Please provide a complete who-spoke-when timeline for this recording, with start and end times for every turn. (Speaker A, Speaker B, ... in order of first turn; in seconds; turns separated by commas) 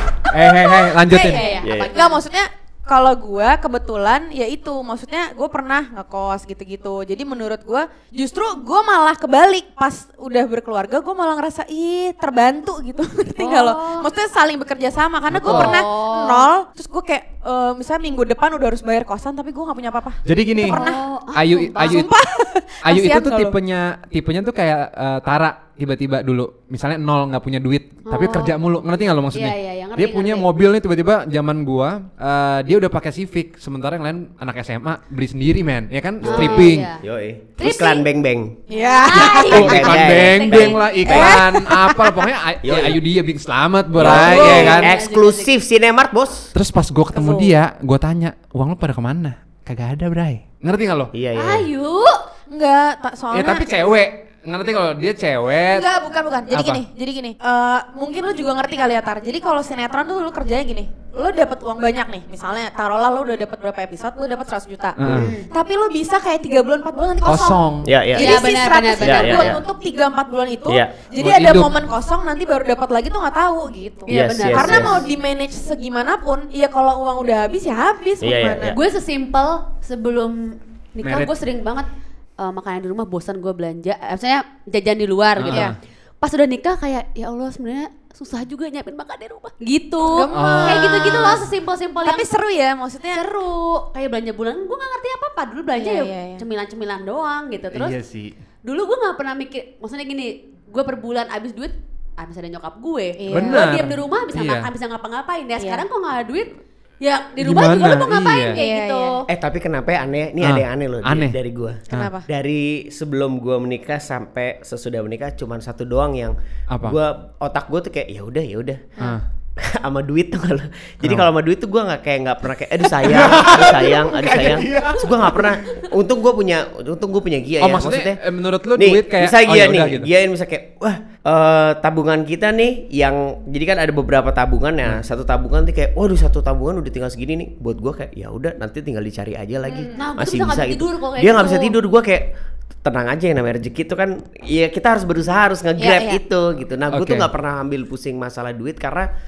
Speaker A: 0.3-1.5, Speaker B: 1.0-21.0, Speaker C: 1.1-2.2, Speaker D: 1.6-2.0, Speaker C: 13.4-14.1, Speaker A: 15.3-15.8, Speaker C: 15.4-16.5, Speaker A: 20.2-20.8, Speaker C: 20.6-22.1, Speaker A: 21.3-22.2, Speaker B: 21.8-23.6, Speaker A: 22.8-36.9, Speaker C: 28.1-28.6, Speaker C: 29.3-30.5, Speaker C: 36.2-37.0, Speaker D: 36.2-38.6, Speaker C: 37.6-38.0, Speaker B: 38.7-39.5, Speaker C: 38.7-41.4, Speaker A: 39.1-44.9, Speaker D: 39.4-41.3, Speaker B: 41.0-42.2, Speaker D: 42.6-43.0, Speaker D: 43.9-46.5, Speaker C: 44.0-45.5, Speaker A: 46.5-51.1, Speaker B: 47.1-47.5, Speaker D: 51.1-51.7, Speaker C: 51.3-52.2, Speaker B: 52.5-53.6, Speaker A: 53.3-55.9, Speaker B: 55.7-65.0, Speaker A: 56.5-56.8, Speaker A: 65.0-65.3, Speaker D: 65.0-65.3, Speaker C: 65.1-65.5, Speaker B: 65.5-67.6, Speaker A: 67.2-67.9, Speaker D: 67.8-69.6, Speaker B: 68.1-78.7, Speaker C: 68.1-69.6, Speaker D: 70.7-70.9, Speaker A: 71.2-71.7, Speaker C: 74.1-75.0, Speaker D: 74.1-75.0, Speaker D: 78.2-78.8, Speaker C: 78.7-81.9, Speaker A: 81.0-81.3, Speaker C: 82.4-92.3, Speaker A: 85.3-85.7, Speaker B: 90.0-91.4, Speaker A: 90.3-91.3, Speaker B: 92.0-93.2, Speaker C: 93.1-98.0, Speaker B: 95.7-96.4, Speaker A: 97.7-98.3, Speaker C: 98.6-109.2, Speaker B: 103.2-103.7, Speaker A: 103.3-104.7, Speaker B: 105.6-105.8, Speaker A: 107.4-108.6, Speaker B: 108.5-109.2, Speaker D: 109.3-118.9, Speaker A: 110.4-111.3, Speaker B: 111.9-112.2, Speaker A: 116.7-117.0, Speaker D: 119.6-128.2, Speaker A: 121.0-121.3, Speaker A: 122.9-125.5, Speaker A: 127.6-130.1, Speaker D: 128.7-142.3, Speaker C: 139.9-141.8, Speaker D: 142.8-149.1, Speaker B: 145.8-146.2, Speaker A: 146.9-147.3